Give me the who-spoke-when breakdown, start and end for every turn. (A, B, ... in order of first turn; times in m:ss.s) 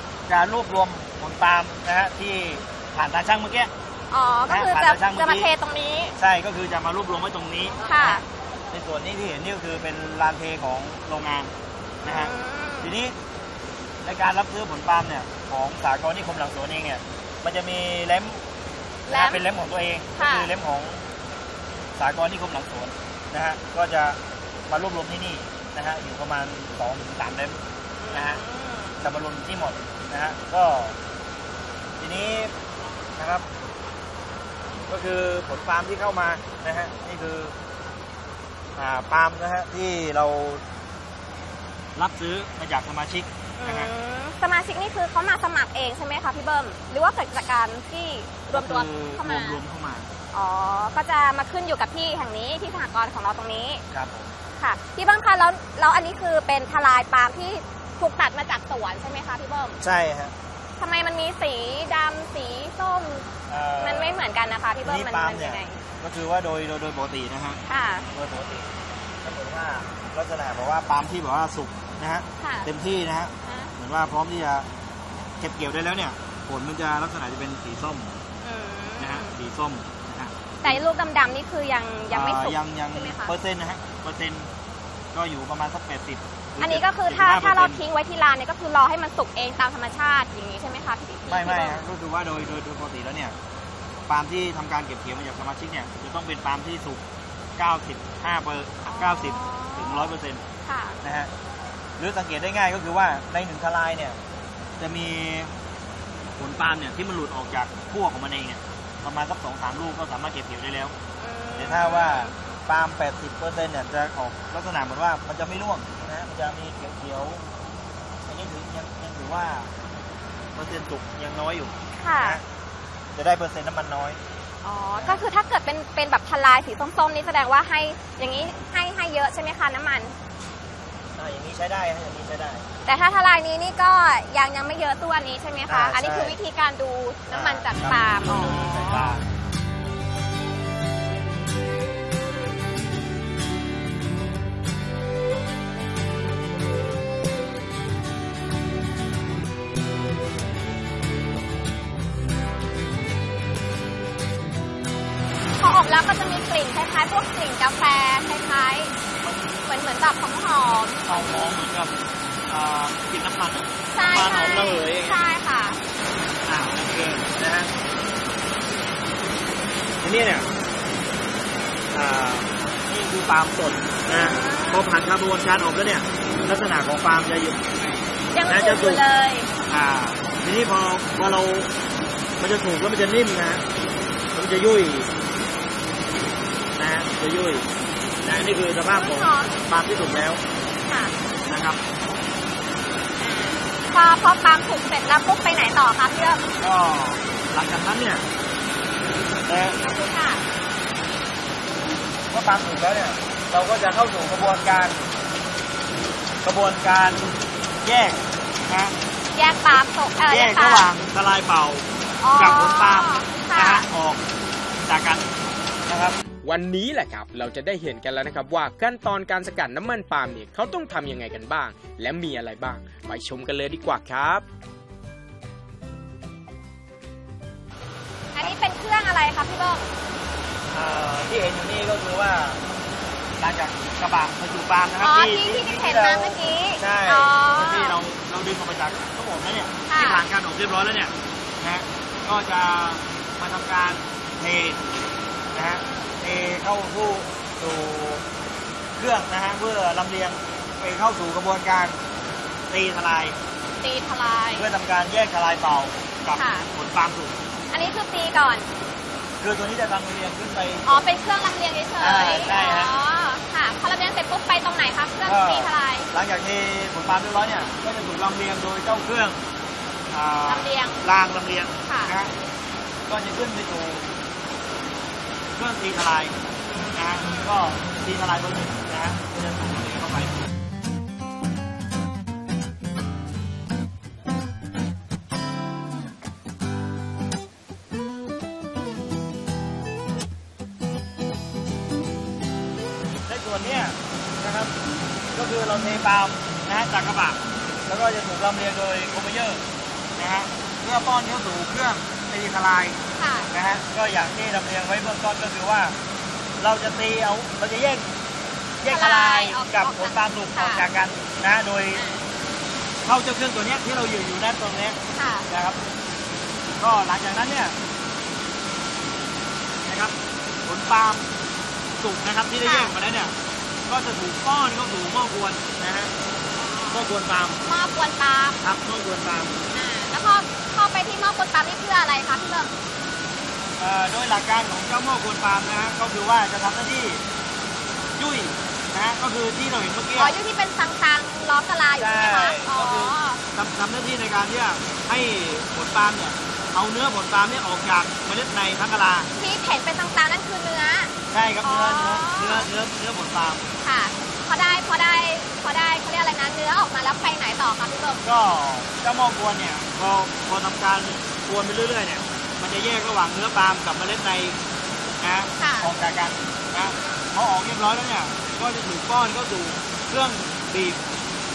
0:00.3-0:03.7 A
0:04.1-0:06.2 B
0:04.5-0:05.5 A
0:06.2-0:11.5 A
0:07.9-0:08.2 B
0:12.0-0:12.9 B
0:12.0-0:13.2 A
0:14.0-0:18.4 A
0:19.1-0:19.4 B
0:19.1-0:21.0 A
0:20.2-0:20.5 B
0:22.0-0:28.4 A
0:28.0-0:29.0 B
0:29.0-0:31.0 A
0:32.0-0:32.5 A
0:33.2-0:33.5 A
0:34.9-0:37.6 A
0:38.8-0:40.6 A
0:42.0-0:43.9 A
0:43.6-0:49.6 B
0:48.5-0:50.1 A
0:50.3-0:53.8 B
0:53.9-0:54.4 A
0:54.6-0:59.8 B
0:59.8-1:00.3 A
1:00.8-1:03.3 B
1:03.5-1:04.2 A
1:03.8-1:05.8 B
1:04.8-1:08.7 A
1:07.7-1:08.1 B
1:09.2-1:14.7 A
1:12.4-1:12.7 B
1:13.4-1:13.7 B
1:15.4-1:18.1 A
1:18.4-1:19.3 B
1:19.0-1:20.8 A
1:20.6-1:23.3 B
1:22.1-1:24.5 A
1:25.1-1:27.8 A
1:26.6-1:31.8 B
1:31.3-1:33.4 A
1:34.1-1:37.0 A
1:37.6-1:40.4 A
1:38.9-1:41.0 B
1:41.0-1:41.3 A
1:42.0-1:44.2 A
1:44.8-1:45.5 A
1:46.4-1:51.0 A
1:51.2-1:52.4 B
1:51.6-1:57.4 A
1:58.3-1:59.8 A
2:00.6-2:02.4 A
2:02.0-2:02.4 B
2:03.1-2:04.2 A
2:04.6-2:10.2 B
2:05.0-2:05.3 A
2:11.2-2:12.7 A
2:12.9-2:19.2 B
2:15.7-2:16.4 A
2:17.3-2:19.3 A
2:35.6-2:38.9 B
2:39.6-2:41.1 B
2:41.1-2:45.2 A
2:43.9-2:45.8 B
2:46.5-2:47.7 A
2:50.0-2:50.5 A
2:51.9-2:59.0 A
2:54.1-2:54.9 B
2:58.3-2:59.5 B
2:59.7-3:01.7 A
3:02.4-3:03.6 A
3:04.3-3:05.1 A
3:06.8-3:07.7 A
3:08.2-3:10.4 A
3:08.9-3:09.5 B
3:10.8-3:11.1 B
3:11.5-3:11.8 A
3:13.2-3:16.4 B
3:16.6-3:18.2 A
3:19.4-3:19.8 A
3:19.8-3:20.4 B
3:22.3-3:25.1 A
3:26.4-3:29.0 A
3:29.3-3:30.9 B
3:30.3-3:34.2 A
3:32.2-3:33.9 B
3:34.8-3:35.3 A
3:35.9-3:36.2 A
3:36.4-3:44.4 C
3:48.3-3:49.9 B
3:50.7-3:52.6 A
3:53.4-4:04.9 A
3:55.0-3:58.0 B
3:59.9-4:00.2 B
4:05.5-4:08.2 A
4:05.7-4:06.2 B
4:09.0-4:12.0 A
4:12.7-4:13.4 A
4:13.8-4:14.7 B
4:14.6-4:17.4 A
4:16.3-4:16.7 B
4:17.7-4:18.7 B
4:19.4-4:21.1 A
4:20.8-4:26.1 B
4:22.0-4:22.9 A
4:25.2-4:29.4 A
4:30.1-4:32.3 A
4:30.5-4:31.0 B
4:31.9-4:32.1 B
4:33.1-4:34.1 A
4:35.6-4:36.4 A
4:36.7-4:37.5 B
4:36.9-4:40.5 A
4:53.2-4:54.7 A
4:55.3-4:59.6 A
5:00.2-5:06.0 A
5:03.2-5:03.5 B
5:06.6-5:08.1 A
5:08.8-5:12.0 A
5:08.9-5:10.8 B
5:11.9-5:12.2 B
5:13.0-5:15.8 A
5:15.1-5:15.5 B
5:16.8-5:17.8 A
5:19.8-5:21.3 A
5:22.0-5:23.4 A
5:22.6-5:22.9 B
5:23.9-5:26.1 A
5:26.6-5:27.1 B
5:26.9-5:27.6 A
5:27.6-5:28.6 B
5:28.6-5:29.6 A
5:29.7-5:32.7 B
5:33.8-5:37.2 A
5:38.2-5:40.4 A
5:40.2-5:43.4 B
5:42.0-5:49.3 A
5:49.4-5:52.7 B
5:51.3-5:53.7 A
5:53.8-5:58.2 B
5:58.2-6:04.6 A
6:05.2-6:11.0 A
6:05.6-6:05.9 B
6:06.8-6:07.2 B